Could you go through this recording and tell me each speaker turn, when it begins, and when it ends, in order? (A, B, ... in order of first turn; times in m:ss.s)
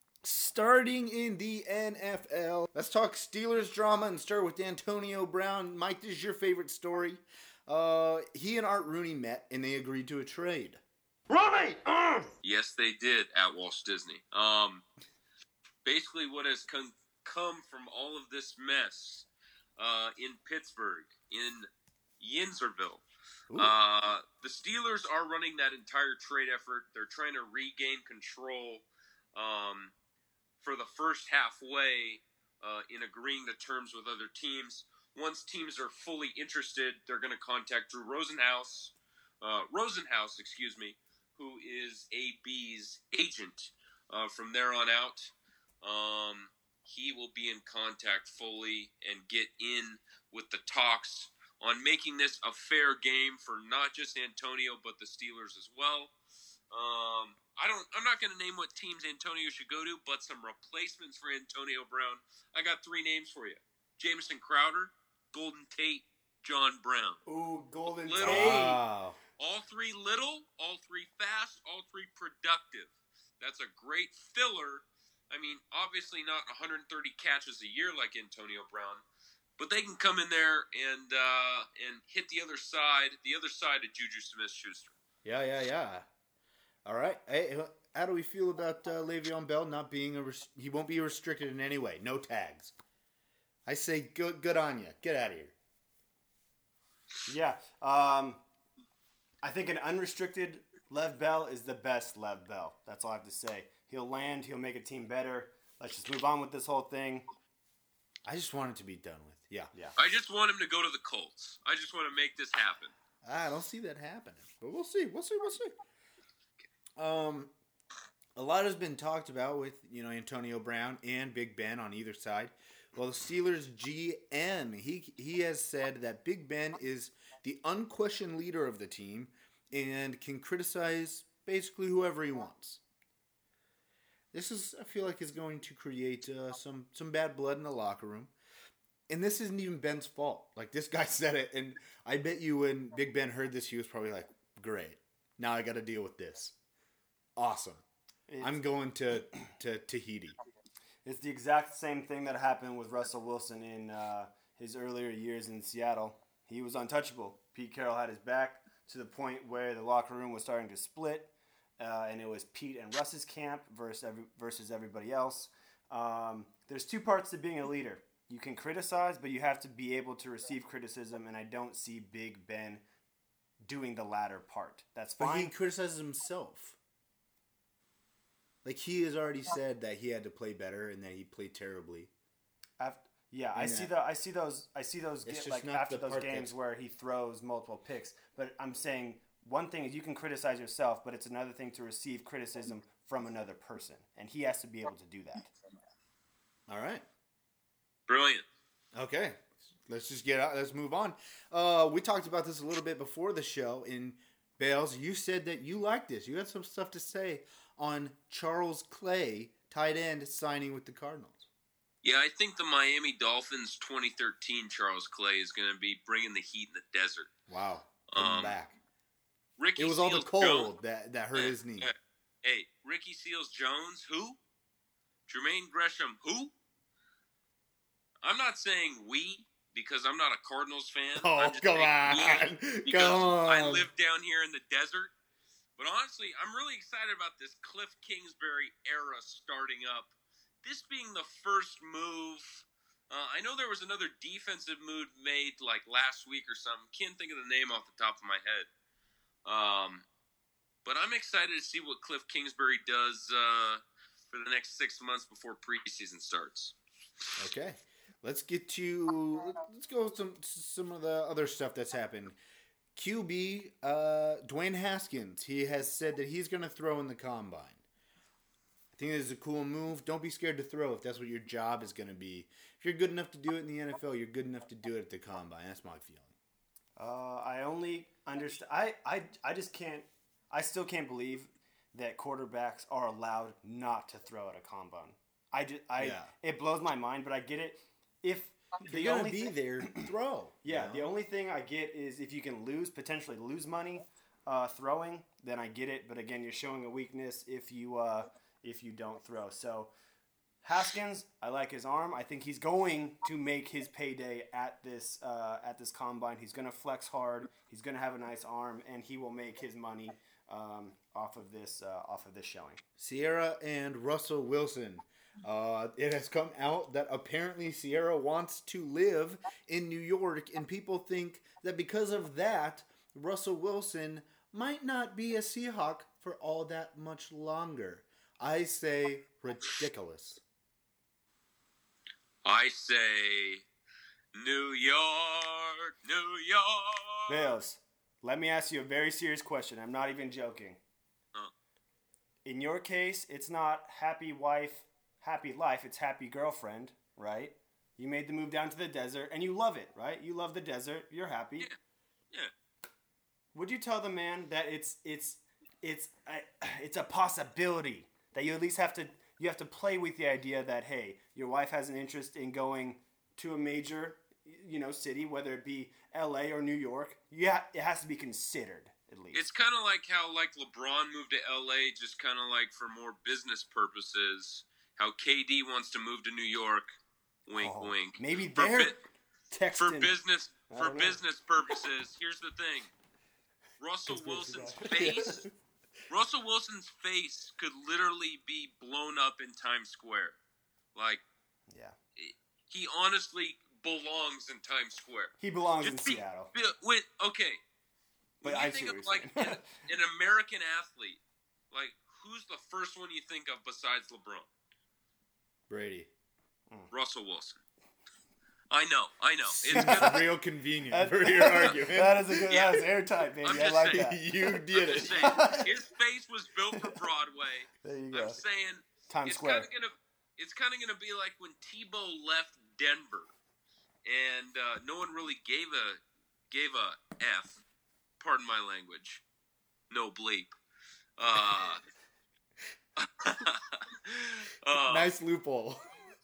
0:00.2-0:10.8 A
0:11.4-0:11.8 B
0:12.4-0:14.8 C
0:15.8-0:21.7 C
0:22.2-0:23.0 C
0:23.6-0:29.9 C
0:30.6-0:56.1 C
0:56.7-1:07.2 C
1:07.3-1:08.8 B
1:08.0-1:08.7 C
1:08.2-1:09.2 A
1:09.4-1:19.0 C
1:19.6-1:24.9 C
1:25.2-1:26.1 A
1:26.8-1:32.7 A
1:33.7-1:35.5 A
1:37.3-1:38.4 B
1:39.4-1:47.3 B
1:48.3-1:49.7 A
1:50.0-1:52.9 C
1:53.2-1:55.7 A
1:57.0-1:57.5 A
1:58.4-2:12.8 A
2:14.3-2:18.3 A
2:19.1-2:26.6 A
2:27.4-2:27.8 A
2:28.3-2:28.6 B
2:28.4-2:30.4 A
2:31.0-2:52.8 B
2:53.6-2:55.6 B
2:55.2-2:56.8 A
2:58.6-3:02.1 A
3:02.8-3:15.5 B
3:03.6-3:03.9 A
3:05.3-3:06.5 A
3:16.7-3:17.0 A
3:18.1-3:18.4 C
3:18.9-3:31.5 A
3:32.0-3:37.3 C
3:37.5-3:38.8 A
3:38.1-3:38.6 C
3:39.6-3:40.7 C
3:39.8-3:41.9 A
3:41.3-3:41.9 C
3:42.4-3:44.4 C
3:45.3-3:46.5 C
3:48.2-3:55.1 C
3:51.2-3:53.9 A
3:55.8-4:00.1 C
4:00.6-4:08.7 C
4:09.4-4:10.0 C
4:10.8-4:16.7 C
4:17.4-4:22.4 A
4:23.0-4:27.8 A
4:28.9-4:36.3 A
4:37.0-4:50.1 B
4:46.0-4:46.3 A
4:48.8-4:51.1 A
4:50.6-4:59.9 B
5:00.6-5:12.8 B
5:13.0-5:30.4 A
5:32.4-5:33.6 C
5:34.4-5:37.5 C
5:37.3-5:40.8 B
5:42.4-5:51.7 B
5:53.5-6:09.4 B
6:09.3-6:17.0 C
6:17.5-6:19.0 C
6:17.6-6:20.2 B
6:19.8-6:22.9 C
6:20.7-6:21.2 B
6:23.8-6:25.4 C
6:24.1-6:25.2 B
6:24.9-6:25.4 A
6:26.1-6:30.4 C
6:31.0-6:31.2 C
6:31.7-6:32.0 B
6:32.2-6:37.6 C
6:35.4-6:36.5 B
6:38.4-6:41.2 C
6:38.4-6:39.6 B
6:41.7-6:44.5 C
6:45.7-6:46.1 A
6:46.9-6:47.6 C
6:48.7-6:50.2 C
6:49.5-6:52.6 A
6:49.7-6:50.2 B
6:50.9-6:54.3 B
6:53.4-6:54.1 C
6:53.6-6:55.4 A
6:54.8-7:03.3 C
6:55.2-6:55.7 B
6:57.8-6:58.4 B
6:59.1-6:59.7 B
7:04.1-7:07.6 C
7:08.2-7:09.2 C
7:09.9-7:10.5 C
7:11.2-7:11.8 C
7:13.0-7:15.1 C
7:14.7-7:15.9 A